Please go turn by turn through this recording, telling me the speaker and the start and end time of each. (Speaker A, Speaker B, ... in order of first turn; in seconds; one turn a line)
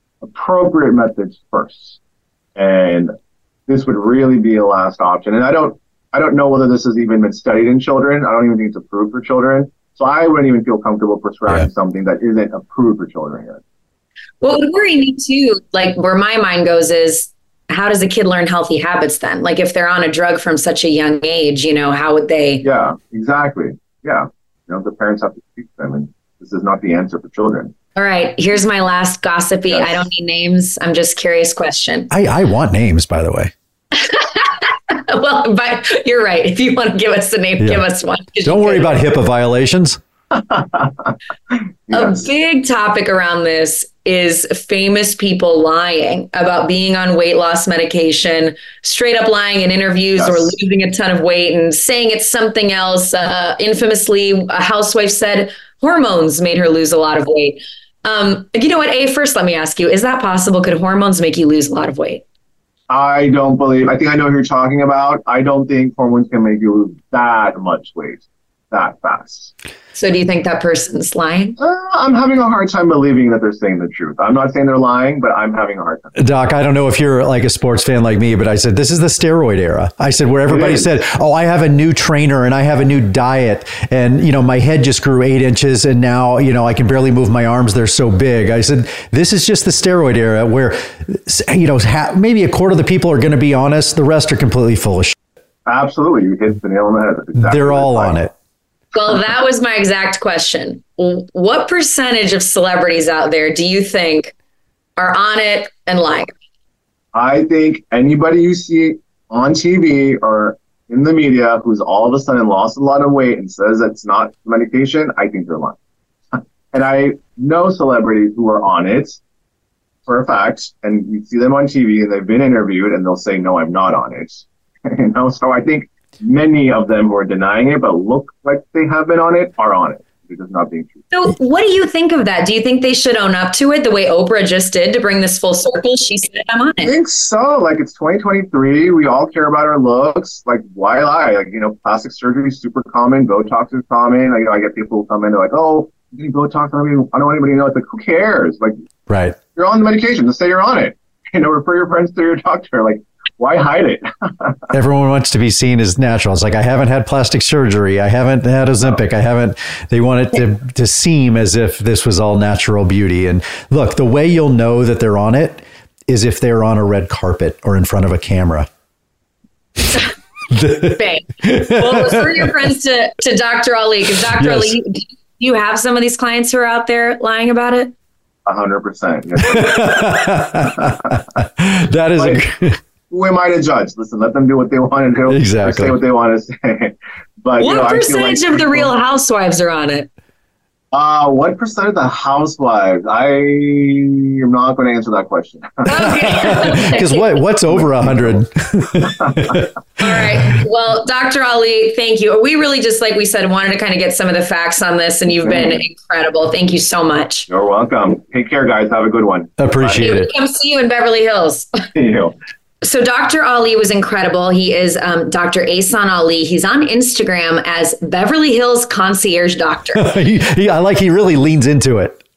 Speaker A: 0.2-2.0
Speaker A: 2.5-3.1
Speaker A: 3.7-13.6
Speaker B: 14.4-22.6
Speaker A: 22.6-27.7
Speaker B: 27.9-32.1
Speaker A: 29.7-30.0
Speaker C: 32.1-33.5
Speaker B: 33.9-39.0
Speaker C: 38.4-40.0
Speaker A: 40.3-41.1
Speaker A: 41.9-42.3
Speaker B: 41.9-62.2
Speaker A: 50.2-50.5
Speaker A: 62.9-69.5
Speaker B: 69.9-71.5
Speaker A: 71.6-76.1
Speaker C: 76.2-95.1
Speaker A: 80.5-80.9
Speaker A: 95.7-98.2
Speaker C: 97.3-98.3
Speaker B: 98.9-104.3
Speaker B: 105.0-106.3
Speaker A: 107.1-115.8
Speaker A: 116.7-119.2
Speaker A: 120.0-131.0
Speaker B: 131.1-136.9
Speaker A: 136.8-148.7
Speaker C: 149.1-149.4
Speaker A: 149.5-154.6
Speaker C: 154.7-168.7
Speaker C: 170.5-172.5
Speaker B: 171.0-177.9
Speaker C: 174.3-174.8
Speaker A: 178.4-180.2
Speaker C: 179.4-182.8
Speaker A: 183.1-188.9
Speaker C: 185.3-186.0
Speaker B: 187.6-190.1
Speaker A: 190.9-196.8
Speaker B: 195.8-197.3
Speaker C: 196.2-199.7
Speaker A: 197.8-198.4
Speaker A: 199.0-199.5
Speaker B: 200.0-207.5
Speaker A: 205.4-205.8
Speaker A: 207.5-210.0
Speaker C: 209.6-210.3
Speaker B: 209.9-211.7
Speaker A: 211.9-212.3
Speaker B: 212.8-220.1
Speaker C: 219.9-222.2